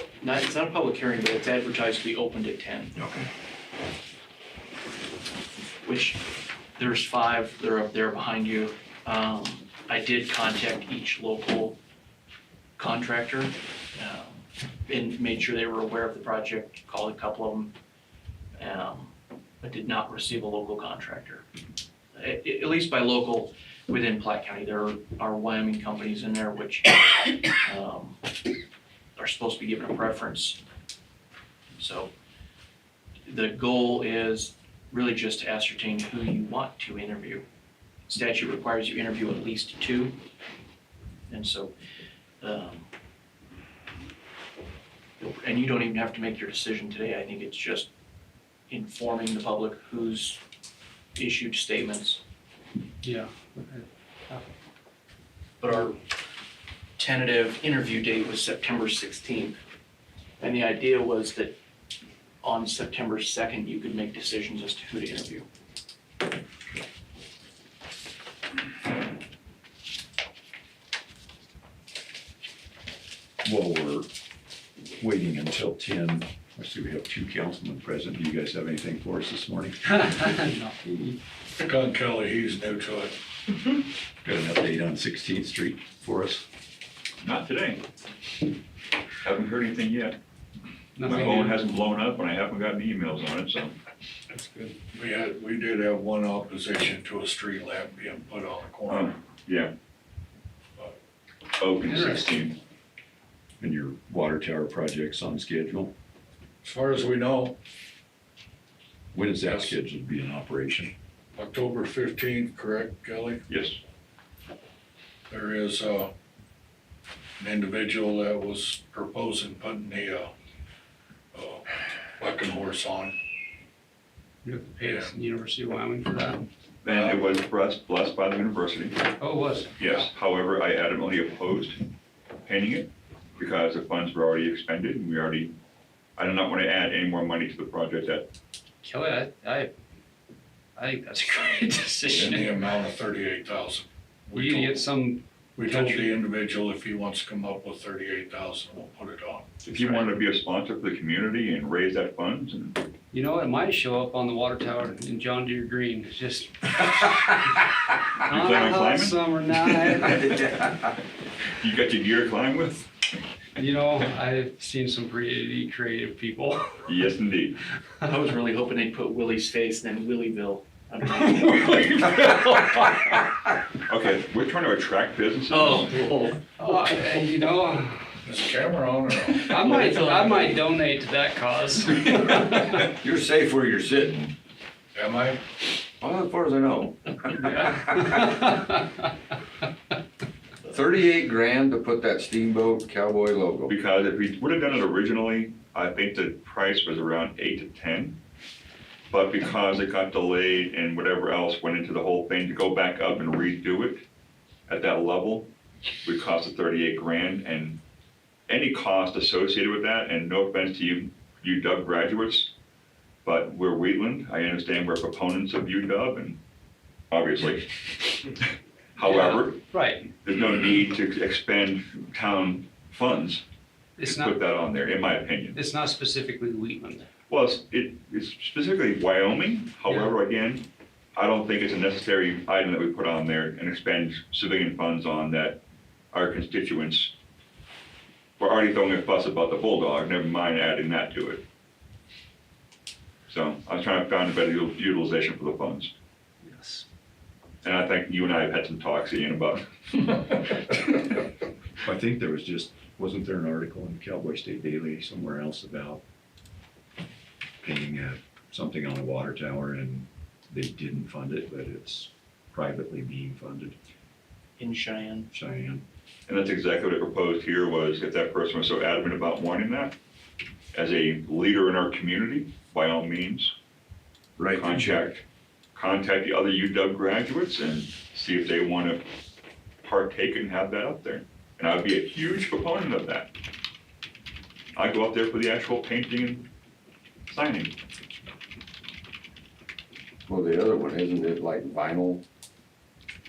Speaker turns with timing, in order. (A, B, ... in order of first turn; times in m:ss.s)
0:00.2-0:03.0 A
0:05.8-0:06.2 A
0:06.8-0:11.8 A
0:12.8-0:17.7 A
0:18.6-0:21.4 A
0:22.2-0:28.2 A
0:29.2-0:30.6 A
0:31.8-0:32.1 A
0:33.2-0:37.4 A
0:38.1-0:40.2 A
0:41.3-0:41.7 A
0:42.4-0:42.9 A
0:45.2-0:47.9 A
0:48.7-0:50.4 A
0:51.1-0:52.2 A
0:53.0-0:54.4 B
0:55.6-0:56.0 A
0:57.0-0:59.6 A
1:00.4-1:01.6 A
1:02.4-1:05.5 A
1:13.4-1:14.1 C
1:15.0-1:19.8 C
1:20.0-1:21.2 B
1:21.6-1:23.1 D
1:24.2-1:26.4 C
1:27.2-1:27.8 E
1:29.2-1:30.2 E
1:31.0-1:31.8 B
1:31.0-1:33.8 E
1:34.3-1:39.2 D
1:38.9-1:39.7 E
1:41.6-1:42.6 E
1:41.8-1:42.4 B
1:43.6-1:45.9 C
1:46.6-1:47.6 D
1:49.1-1:50.9 C
1:49.4-1:49.7 D
1:51.4-1:53.4 D
1:53.5-1:53.8 E
1:55.3-1:56.1 D
1:57.4-2:00.3 D
2:01.3-2:01.6 D
2:02.2-2:03.1 D
2:04.4-2:06.4 B
2:04.8-2:05.1 D
2:06.8-2:09.0 E
2:06.9-2:07.2 D
2:09.2-2:09.8 B
2:09.8-2:11.8 E
2:12.4-2:15.6 E
2:16.2-2:18.3 E
2:18.8-2:19.7 B
2:20.8-2:22.7 B
2:22.1-2:24.8 D
2:24.3-2:26.2 B
2:25.6-2:29.6 D
2:29.6-2:32.8 E
2:33.1-2:40.6 B
2:38.2-2:40.6 E
2:41.5-2:42.9 E
2:43.6-2:47.0 B
2:46.9-2:47.6 E
2:48.0-2:52.9 A
2:53.9-2:56.0 E
2:55.5-2:57.3 A
2:56.6-2:58.2 B
2:58.2-2:59.6 D
2:59.4-3:02.9 B
2:59.5-3:00.6 A
3:03.0-3:04.2 F
3:04.9-3:05.4 D
3:06.0-3:06.9 F
3:07.4-3:08.9 B
3:10.6-3:13.7 F
3:13.7-3:18.2 E
3:19.1-3:24.0 E
3:24.7-3:25.5 E
3:26.0-3:27.8 E
3:28.5-3:32.5 E
3:33.2-3:36.4 E
3:37.1-3:38.4 E
3:39.0-3:39.6 E
3:39.0-3:40.1 B
3:40.2-3:43.4 E
3:44.0-3:44.4 B
3:44.0-3:45.6 E
3:45.5-3:47.0 B
3:47.3-3:57.1 E
3:58.4-4:01.4 E
4:03.3-4:05.9 E
4:06.4-4:06.8 B
4:07.6-4:10.8 E
4:11.8-4:16.0 C
4:17.6-4:23.7 C
4:24.6-4:25.3 A
4:25.3-4:25.8 C
4:26.3-4:29.9 E
4:30.7-4:33.5 E
4:34.5-4:35.2 E
4:35.7-4:39.0 E
4:39.8-4:43.3 E
4:44.7-4:46.5 E
4:47.3-4:47.7 E
4:50.3-4:52.2 F